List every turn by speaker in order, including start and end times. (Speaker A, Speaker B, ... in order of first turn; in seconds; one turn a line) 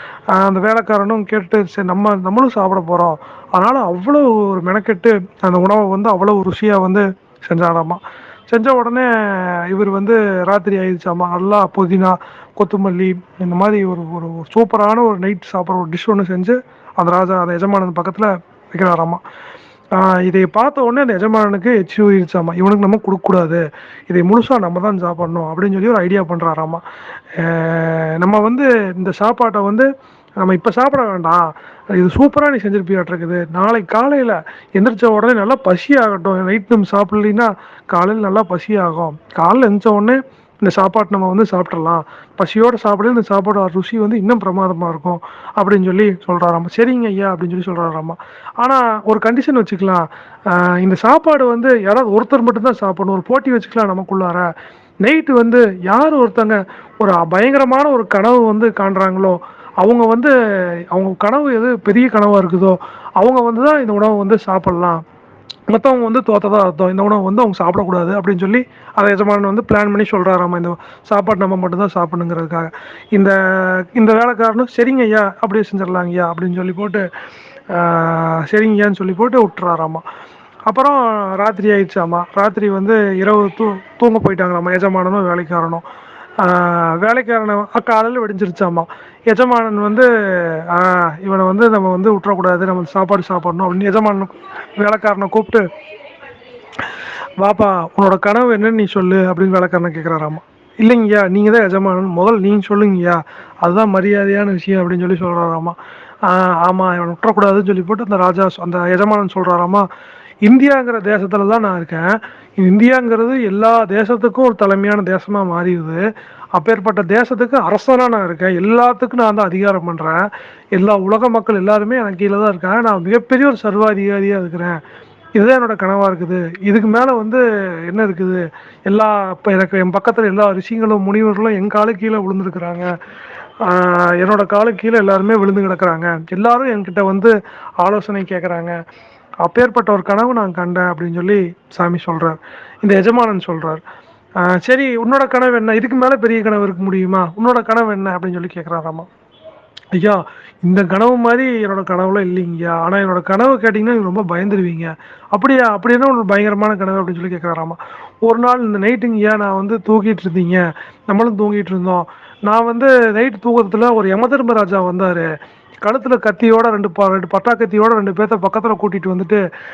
Speaker A: 0.3-19.2
Speaker A: 19.9-26.8
Speaker A: 27.4-54.5
Speaker A: 55.0-65.0
Speaker A: 65.7-77.1
Speaker A: 77.7-80.0
Speaker A: 80.7-85.8
Speaker A: 86.4-95.7
Speaker A: 97.4-109.9
Speaker A: 110.5-124.8
Speaker A: 125.3-132.9
Speaker A: 133.6-138.8
Speaker A: 139.4-143.8
Speaker A: 144.4-149.1
Speaker A: 149.9-165.3
Speaker A: 165.8-169.4